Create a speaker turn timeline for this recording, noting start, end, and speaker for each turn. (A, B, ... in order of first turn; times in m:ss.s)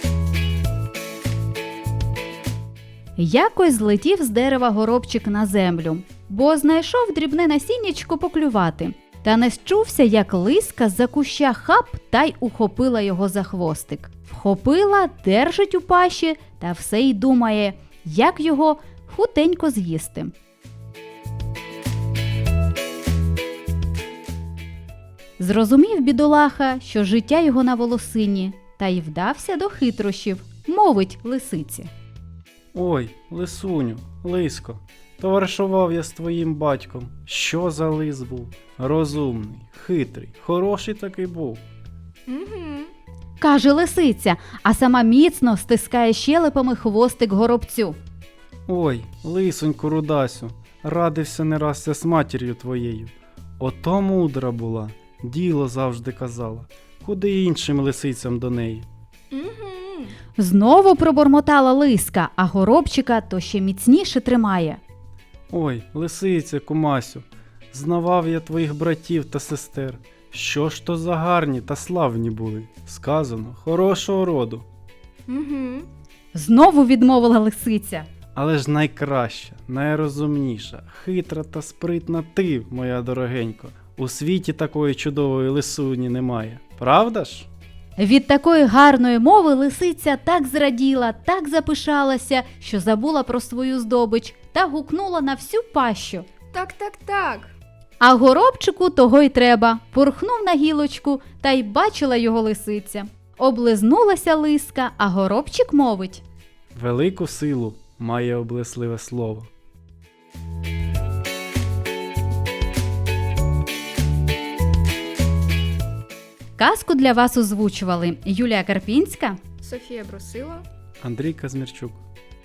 0:03.2-0:20.3 A
0:25.4-0:31.9 A
0:32.7-0:41.6 B
0:42.3-0:42.9 C
0:43.4-0:48.0 A
0:48.7-0:58.9 B
0:59.3-1:00.1 C
1:00.4-1:04.8 A
1:05.5-1:14.7 B
1:15.3-1:15.9 C
1:16.3-1:18.0 A
1:18.3-1:27.5 B
1:28.0-1:36.3 A
1:36.5-1:37.5 C
1:38.0-1:46.2 A
1:46.7-1:49.5 B
1:56.6-1:59.4 A
1:59.6-2:00.6 C
2:01.0-2:02.0 B